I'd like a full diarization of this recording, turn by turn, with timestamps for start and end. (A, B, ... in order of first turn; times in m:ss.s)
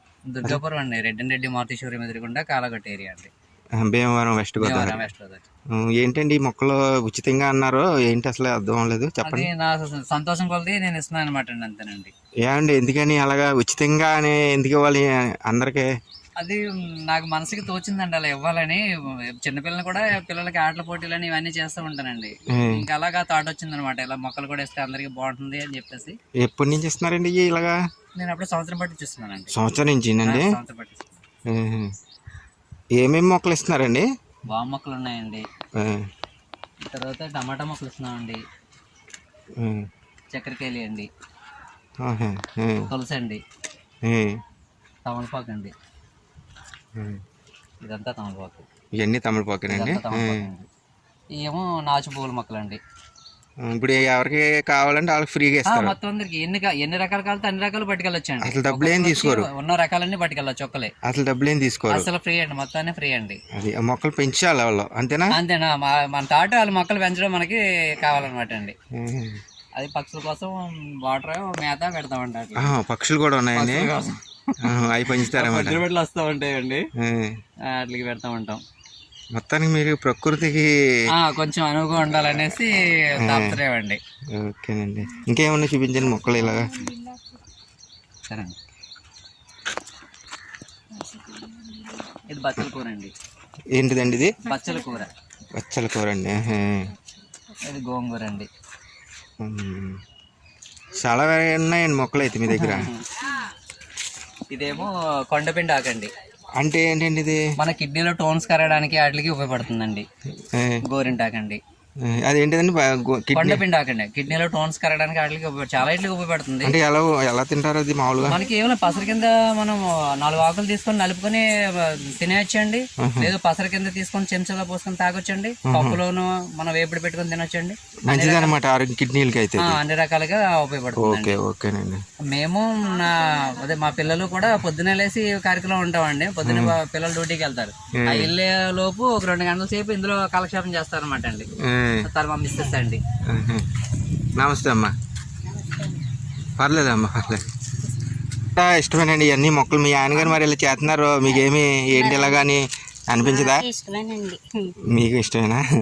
0:00.3-0:03.3 A
0:03.8-0:05.0 B
0:04.6-0:05.4 A
0:05.7-0:09.5 B
0:09.2-0:12.1 A
0:12.4-0:15.8 B
0:16.4-0:26.2 A
0:22.5-0:22.8 B
0:26.4-0:27.8 B
0:28.2-0:29.5 A
0:29.5-0:30.5 B
0:30.2-0:31.2 A
0:31.5-0:31.9 B
0:33.0-0:34.0 B
0:34.5-0:35.5 A
0:35.8-0:36.0 B
0:36.8-0:38.4 A
0:39.6-0:39.8 B
0:40.3-0:41.1 A
0:42.0-0:42.9 B
0:42.9-0:43.4 A
0:44.0-0:44.4 B
0:45.0-0:45.7 A
0:47.8-0:48.6 A
0:49.0-0:50.5 B
0:49.7-0:50.7 A
0:51.3-0:52.8 A
0:53.6-0:55.9 B
0:55.7-1:00.9 A
0:58.4-0:59.5 B
1:01.0-1:02.1 B
1:01.9-1:03.4 A
1:03.5-1:05.3 B
1:05.3-1:08.8 A
1:08.9-1:09.4 B
1:09.7-1:12.7 A
1:12.6-1:13.9 B
1:13.5-1:16.9 A
1:14.6-1:15.8 B
1:17.0-1:17.4 B
1:17.7-1:18.6 A
1:19.3-1:20.7 B
1:21.1-1:24.0 A
1:23.2-1:23.6 B
1:24.3-1:26.9 B
1:28.3-1:28.6 A
1:31.0-1:32.0 C
1:32.3-1:33.1 A
1:33.7-1:34.4 B
1:34.4-1:35.1 A
1:35.5-1:36.9 B
1:37.6-1:38.5 A
1:39.4-1:40.0 B
1:40.9-1:42.9 B
1:42.5-1:43.2 A
1:44.5-1:46.1 A
1:46.6-1:47.4 B
1:47.6-1:50.1 A
1:50.5-1:50.8 B
1:50.8-1:51.6 A
1:52.0-1:53.6 B
1:53.3-1:56.7 A
1:56.6-1:58.4 B
1:58.2-2:08.6 A
2:03.0-2:03.3 B
2:05.7-2:06.0 B
2:08.1-2:09.8 B
2:09.6-2:11.4 A
2:11.0-2:12.0 B
2:12.3-2:21.5 A
2:16.4-2:16.8 B
2:17.9-2:18.3 B
2:21.6-2:22.1 B
2:22.0-2:23.0 A
2:23.3-2:23.6 B
2:24.4-2:24.9 B
2:25.4-2:26.0 C
2:26.6-2:27.4 B
2:28.5-2:33.6 B
2:31.3-2:32.6 C
2:33.2-2:34.7 C
2:34.8-2:35.6 B